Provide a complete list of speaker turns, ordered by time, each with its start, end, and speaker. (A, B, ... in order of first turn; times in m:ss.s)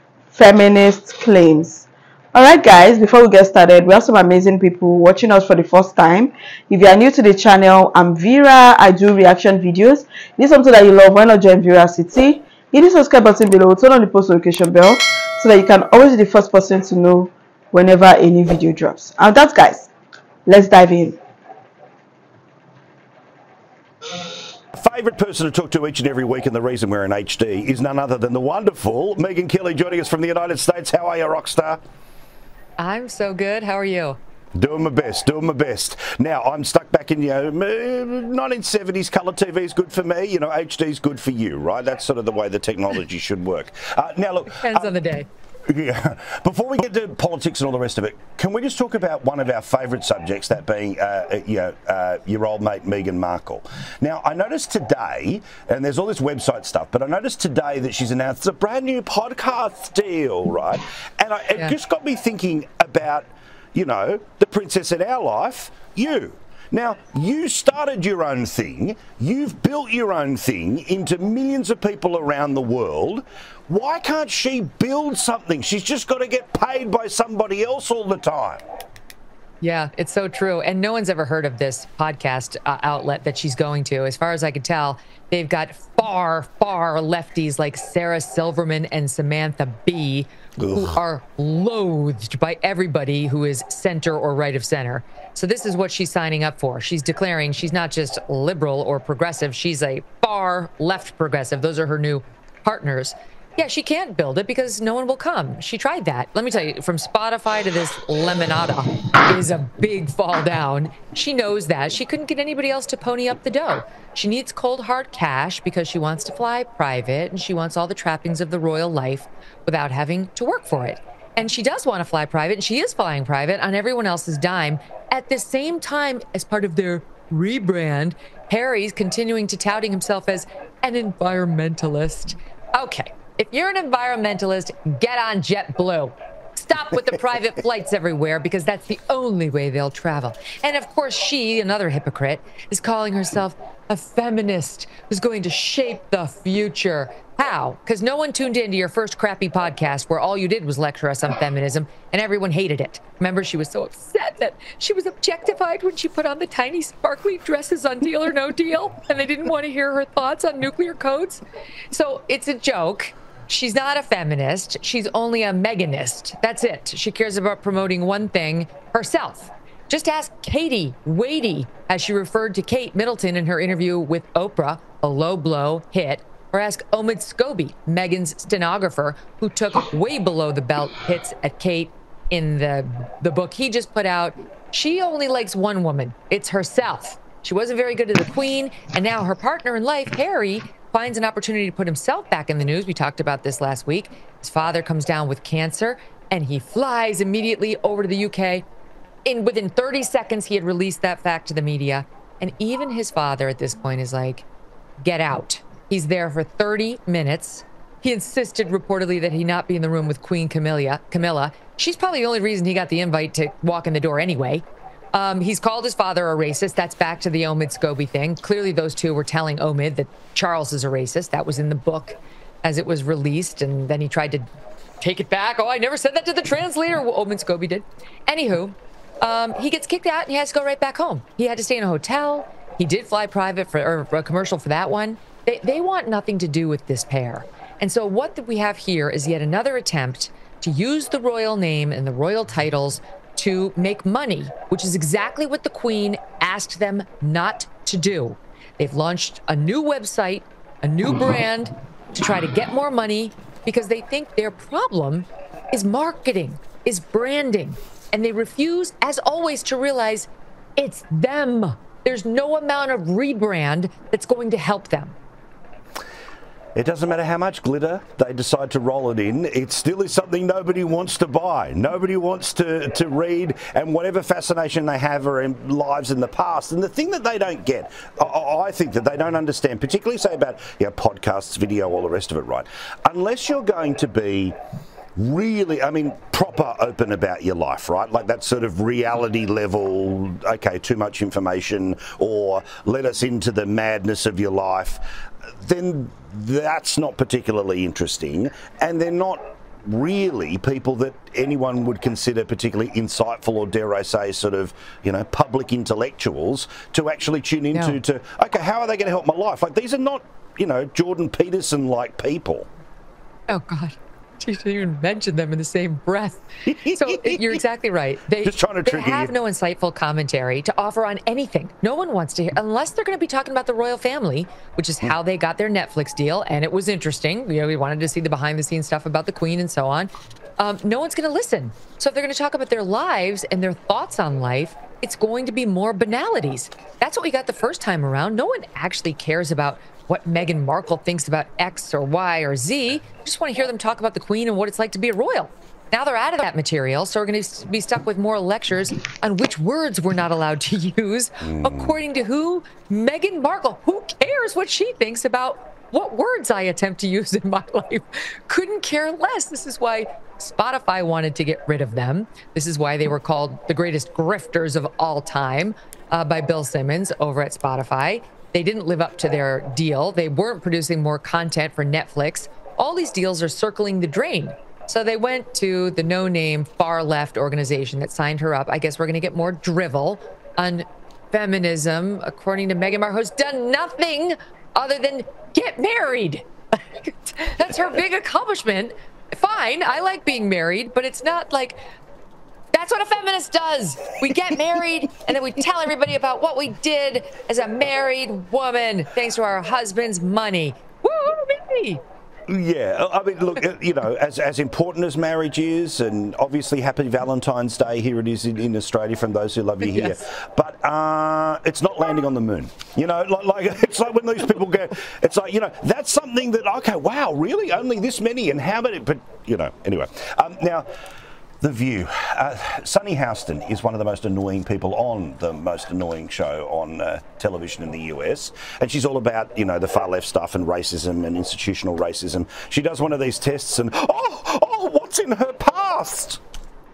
0:00.3-0:19.9 A
0:20.4-0:21.2 A
0:24.8-0:31.8 B
0:32.8-0:34.2 C
0:34.6-0:44.9 B
0:44.5-0:45.3 C
0:45.7-1:18.6 B
1:19.6-3:18.6 C
1:30.6-1:31.0 B
3:19.2-3:24.4 C
3:25.0-3:44.5 C
3:45.0-4:25.1 C
4:26.8-4:44.6 B
4:45.2-4:55.0 B
4:55.6-5:12.7 B
5:13.5-6:31.8 C
5:16.6-5:17.6 B
5:18.4-5:19.3 B
5:51.4-5:52.0 B
6:32.7-6:42.0 C
6:42.5-7:00.8 B
6:49.8-6:50.2 C
7:01.6-7:16.4 B